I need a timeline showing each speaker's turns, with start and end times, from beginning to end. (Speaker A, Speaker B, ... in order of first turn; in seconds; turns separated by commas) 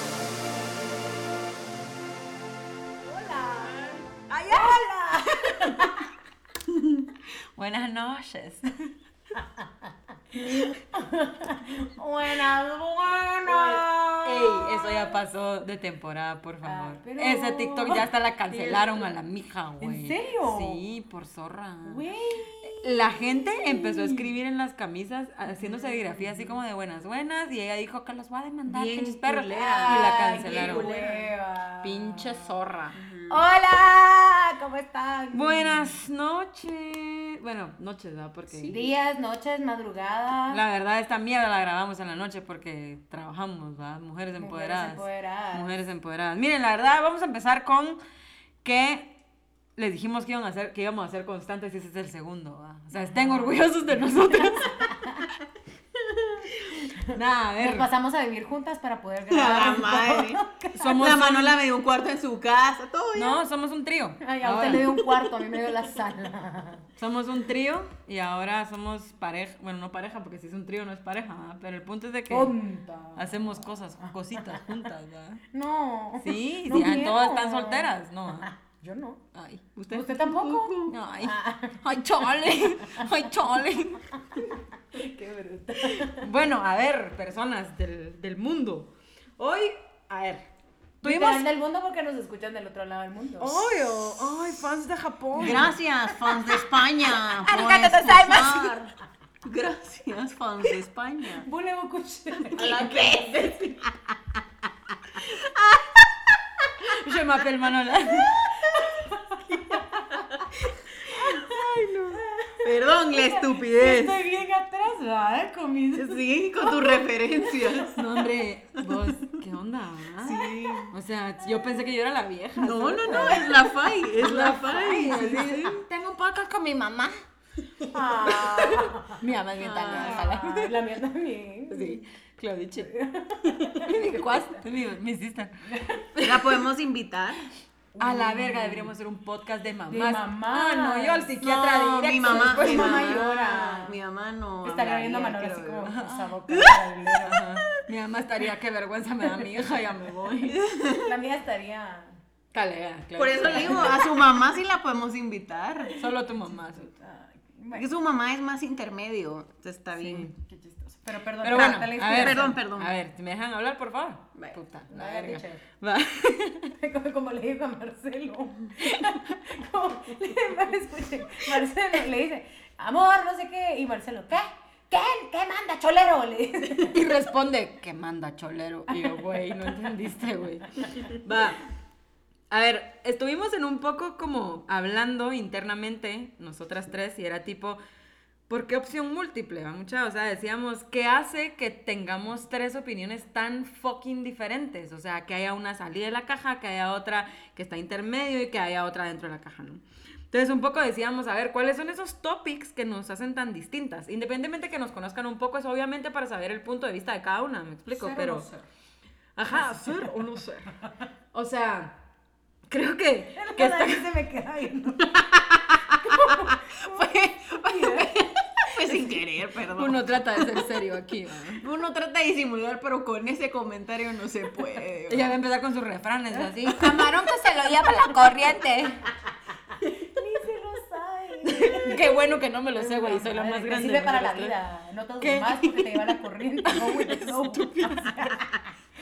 Speaker A: 3.1-5.9, Speaker B: 4.5-6.0, Speaker A: 7.5-8.9, Speaker B: 10.4-15.1, Speaker A: 13.4-22.0, Speaker B: 16.6-19.1, Speaker B: 19.8-20.8, Speaker B: 21.8-24.3, Speaker A: 22.7-31.2, Speaker B: 25.5-26.5, Speaker B: 28.7-32.5, Speaker C: 29.5-31.2, Speaker A: 31.8-33.0, Speaker C: 32.9-33.4, Speaker B: 33.3-35.9, Speaker A: 35.3-38.8, Speaker C: 38.6-38.9, Speaker B: 38.7-40.6, Speaker A: 40.5-48.0, Speaker B: 44.4-45.8, Speaker A: 48.6-49.1, Speaker A: 49.8-55.1, Speaker B: 53.0-53.6, Speaker B: 54.3-55.3, Speaker A: 56.7-57.9, Speaker B: 57.0-60.9, Speaker C: 59.3-60.4, Speaker A: 60.7-61.6, Speaker C: 61.0-63.4, Speaker A: 63.1-64.8, Speaker B: 64.2-66.8, Speaker C: 64.8-65.3, Speaker A: 67.0-72.5, Speaker B: 72.3-74.6, Speaker A: 73.2-75.4, Speaker B: 75.5-79.2, Speaker A: 76.2-78.5, Speaker A: 79.3-79.7, Speaker C: 79.8-80.9, Speaker B: 79.9-81.8, Speaker A: 80.9-84.4, Speaker B: 84.3-86.3, Speaker A: 85.9-90.5, Speaker A: 91.0-91.5, Speaker B: 91.0-93.9, Speaker A: 93.4-95.7, Speaker C: 95.3-98.9, Speaker B: 97.4-98.8, Speaker A: 97.5-98.4, Speaker C: 99.4-101.5, Speaker B: 101.4-103.5, Speaker A: 102.5-103.5, Speaker C: 102.5-103.9, Speaker C: 105.3-105.7, Speaker A: 106.8-108.7, Speaker B: 108.6-110.0, Speaker A: 110.7-112.2, Speaker B: 111.1-117.9, Speaker C: 112.6-114.2, Speaker C: 116.0-118.0, Speaker A: 117.9-123.5, Speaker C: 120.2-120.9, Speaker C: 122.5-125.8, Speaker B: 123.1-123.5, Speaker A: 124.1-127.2, Speaker A: 127.8-130.7, Speaker B: 127.9-132.0, Speaker C: 129.6-130.3, Speaker A: 131.7-132.9, Speaker B: 132.8-134.6, Speaker A: 133.6-135.6, Speaker B: 135.7-136.0, Speaker A: 136.1-136.6, Speaker C: 136.2-137.5, Speaker B: 137.9-138.9, Speaker A: 138.0-143.2, Speaker B: 139.9-141.3, Speaker C: 141.4-147.8, Speaker B: 142.2-144.0, Speaker B: 144.6-147.4, Speaker A: 145.9-146.2, Speaker A: 147.2-150.6, Speaker C: 150.5-151.0, Speaker B: 150.9-152.2, Speaker A: 152.5-154.1, Speaker C: 153.2-156.0, Speaker A: 156.0-156.9, Speaker B: 156.7-157.9, Speaker C: 157.7-160.3, Speaker A: 159.9-160.3, Speaker B: 160.8-162.6, Speaker A: 161.4-166.7, Speaker C: 161.5-162.9, Speaker B: 164.9-165.6, Speaker B: 166.8-177.1, Speaker A: 168.9-169.2, Speaker A: 176.8-181.6, Speaker B: 178.9-179.5, Speaker A: 182.5-187.8, Speaker A: 188.5-208.4, Speaker B: 207.9-208.6, Speaker A: 209.3-210.7, Speaker B: 209.5-210.1, Speaker A: 211.3-212.0, Speaker A: 212.7-214.1, Speaker B: 213.3-215.2, Speaker B: 216.0-217.1, Speaker C: 216.7-220.7, Speaker B: 217.6-218.1, Speaker A: 219.7-221.6, Speaker C: 221.5-225.3, Speaker A: 225.1-227.2, Speaker B: 226.3-228.6, Speaker B: 230.0-238.7, Speaker C: 231.5-231.9, Speaker A: 231.5-234.5, Speaker A: 235.2-235.9, Speaker C: 236.7-238.3